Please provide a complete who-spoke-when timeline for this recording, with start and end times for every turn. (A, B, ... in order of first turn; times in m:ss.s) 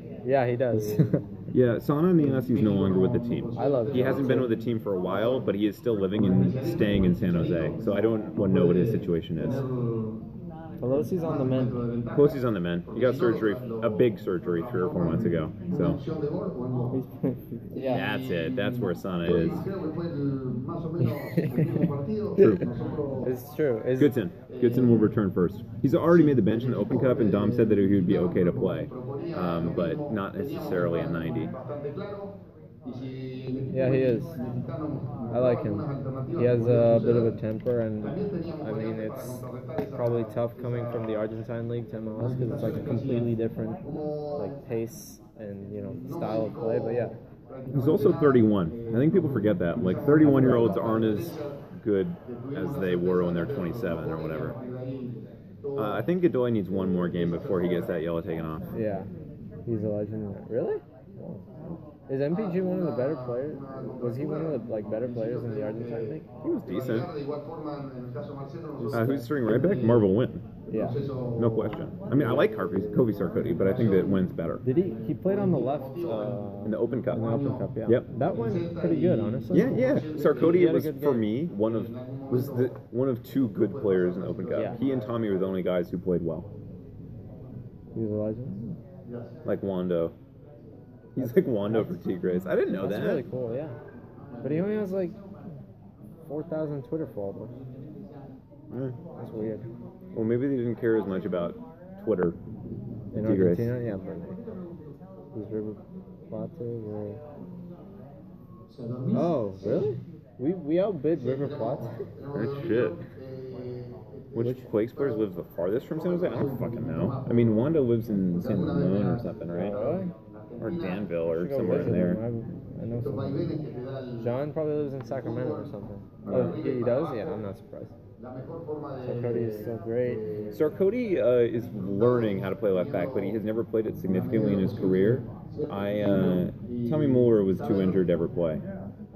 0:00.2-0:01.2 A
0:00.7-0:01.2 B
0:01.5-0:09.6 C
0:02.2-0:05.5 B
0:03.6-0:04.5 A
0:06.1-0:10.2 B
0:10.8-0:11.8 A
0:10.8-0:17.0 B
0:12.1-0:16.0 C
0:16.9-0:18.1 A
0:17.7-0:23.4 B
0:17.9-0:19.7 C
0:21.0-0:21.9 A
0:22.4-0:22.8 C
0:23.2-0:24.2 A
0:24.0-0:31.5 C
0:24.5-0:25.1 B
0:26.1-0:37.4 B
0:33.7-0:34.4 A
0:35.3-0:43.8 A
0:38.0-0:41.3 B
0:42.2-0:44.6 B
0:44.4-0:47.2 A
0:46.0-0:51.6 B
0:47.7-0:54.6 C
0:52.2-0:56.1 B
0:55.8-0:58.7 C
0:56.7-0:58.0 B
0:58.7-0:59.1 A
0:59.6-1:01.4 A
1:02.1-1:06.2 A
1:02.3-1:10.1 B
1:06.4-1:07.1 C
1:08.8-1:09.3 A
1:08.9-1:10.4 C
1:10.7-1:20.8 B
1:10.7-1:11.0 A
1:11.4-1:14.6 C
1:12.2-1:12.8 A
1:14.6-1:21.4 A
1:16.0-1:17.3 C
1:19.5-1:26.5 C
1:21.7-1:22.8 B
1:23.5-1:25.5 B
1:24.5-1:24.8 A
1:27.9-1:28.8 A
1:29.0-1:29.3 B
1:29.4-1:30.1 C
1:31.1-1:33.2 C
1:31.2-1:32.0 A
1:32.7-1:33.8 A
1:34.3-1:34.8 B
1:34.4-1:35.2 A
1:36.2-1:37.6 A
1:38.7-1:39.0 C
1:39.2-1:39.6 A
1:40.1-1:42.4 C
1:43.1-1:44.4 A
1:43.2-1:43.7 C
1:45.3-1:47.2 A
1:48.7-1:49.9 B
1:49.1-1:52.0 A
1:51.1-1:55.3 B
1:52.3-1:53.0 C
1:54.3-1:59.8 C
1:55.9-2:01.1 B
1:59.5-2:00.1 A
2:00.6-2:02.2 C
2:01.3-2:03.5 A
2:01.7-2:02.0 B
2:02.9-2:04.4 B
2:04.2-2:08.0 A
2:05.0-2:07.4 B
2:06.2-2:06.6 C
2:08.2-2:10.7 B
2:09.0-2:10.4 A
2:10.5-2:18.6 C
2:11.8-2:13.4 B
2:14.1-2:18.0 B